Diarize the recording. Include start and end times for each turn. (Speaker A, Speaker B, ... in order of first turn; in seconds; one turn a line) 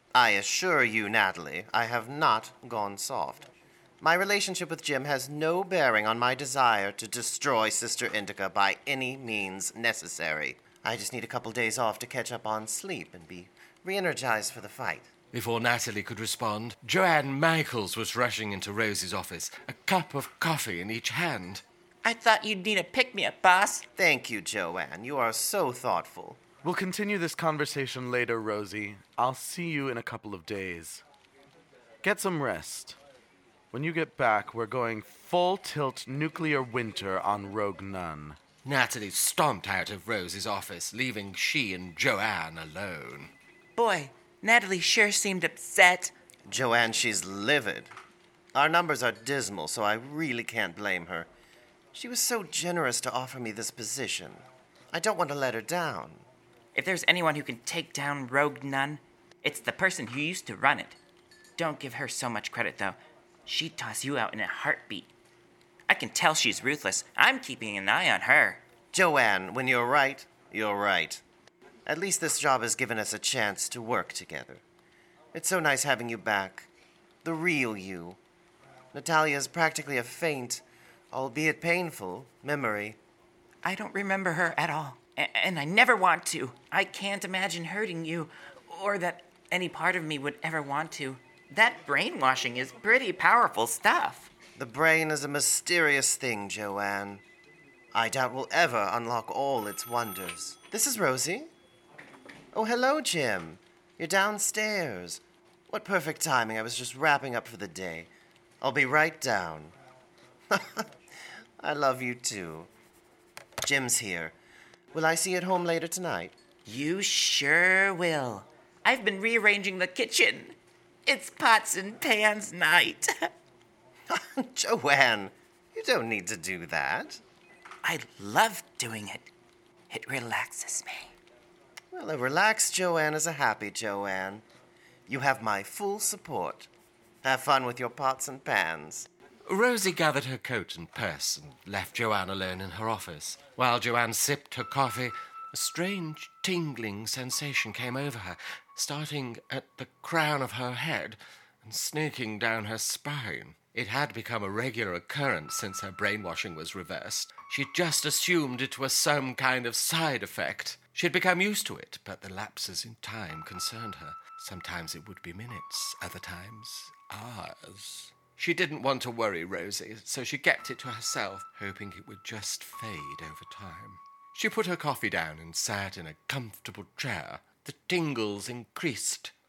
Speaker A: 0.1-3.5
Speaker A: 4.0-15.1
Speaker B: 15.3-21.6
Speaker C: 22.0-23.8
Speaker A: 23.9-26.4
Speaker D: 26.6-31.0
Speaker D: 32.0-33.0
Speaker D: 33.7-38.4
Speaker B: 38.6-43.3
Speaker C: 43.8-46.1
Speaker A: 46.5-47.9
Speaker A: 48.5-51.3
Speaker A: 51.9-56.2
Speaker C: 56.7-61.0
Speaker C: 61.6-65.1
Speaker C: 65.9-68.6
Speaker A: 68.9-71.2
Speaker A: 71.8-74.6
Speaker A: 75.3-76.7
Speaker A: 77.2-78.2
Speaker A: 78.9-83.0
Speaker C: 83.6-94.3
Speaker A: 94.6-97.2
Speaker A: 97.9-101.5
Speaker A: 102.5-108.1
Speaker A: 108.6-109.7
Speaker A: 110.5-110.9
Speaker A: 111.6-112.7
Speaker A: 113.6-114.3
Speaker A: 114.9-116.3
Speaker C: 116.7-123.3
Speaker A: 124.1-127.2
Speaker C: 127.8-129.3
Speaker C: 129.9-131.1
Speaker A: 131.9-134.4
Speaker A: 135.1-136.7
Speaker A: 137.2-139.1
Speaker B: 139.4-179.3